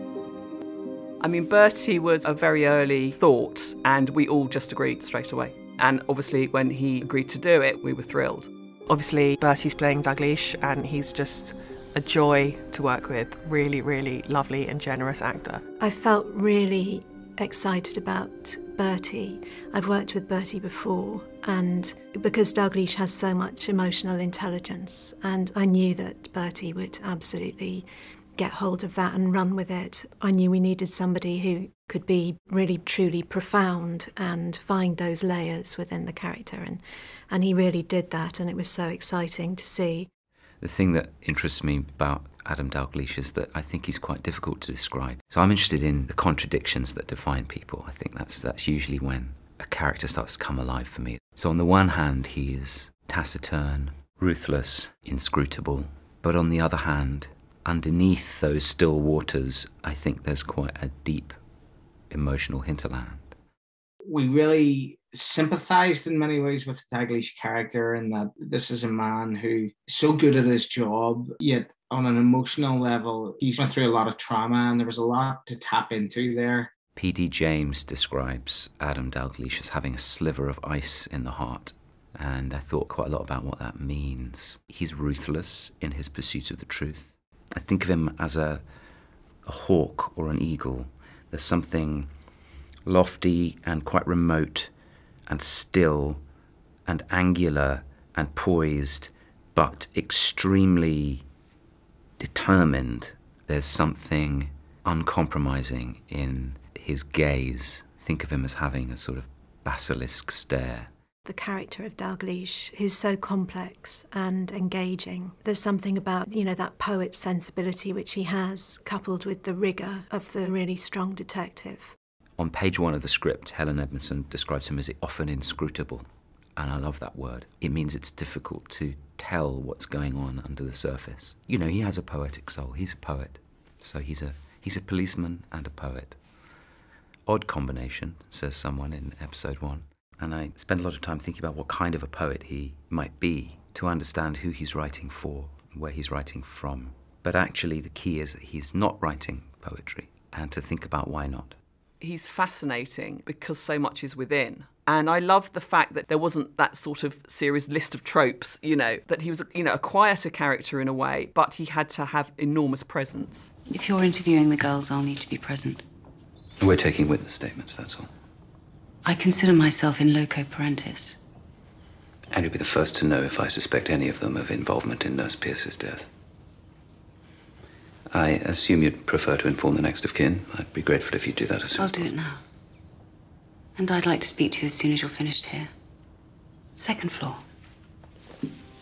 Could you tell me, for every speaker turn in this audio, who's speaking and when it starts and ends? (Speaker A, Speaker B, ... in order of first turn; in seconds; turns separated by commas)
Speaker A: 1.2-8.5, Speaker B: 8.9-15.6, Speaker C: 15.8-27.9, Speaker C: 28.4-40.1, Speaker D: 40.6-61.4, Speaker D: 62.1-63.3, Speaker E: 64.0-76.7, Speaker D: 76.9-88.6, Speaker D: 89.5-92.1, Speaker D: 92.8-94.7, Speaker D: 95.3-96.2, Speaker D: 96.8-101.2, Speaker D: 102.2-110.9, Speaker C: 111.2-121.9, Speaker D: 122.4-126.0, Speaker D: 126.6-136.2, Speaker D: 137.3-151.6, Speaker A: 152.0-163.5, Speaker F: 163.7-165.8, Speaker D: 166.6-168.1, Speaker F: 169.0-171.2, Speaker D: 172.3-176.1, Speaker D: 178.1-182.1, Speaker F: 181.8-182.4, Speaker F: 183.8-185.7, Speaker F: 186.8-187.4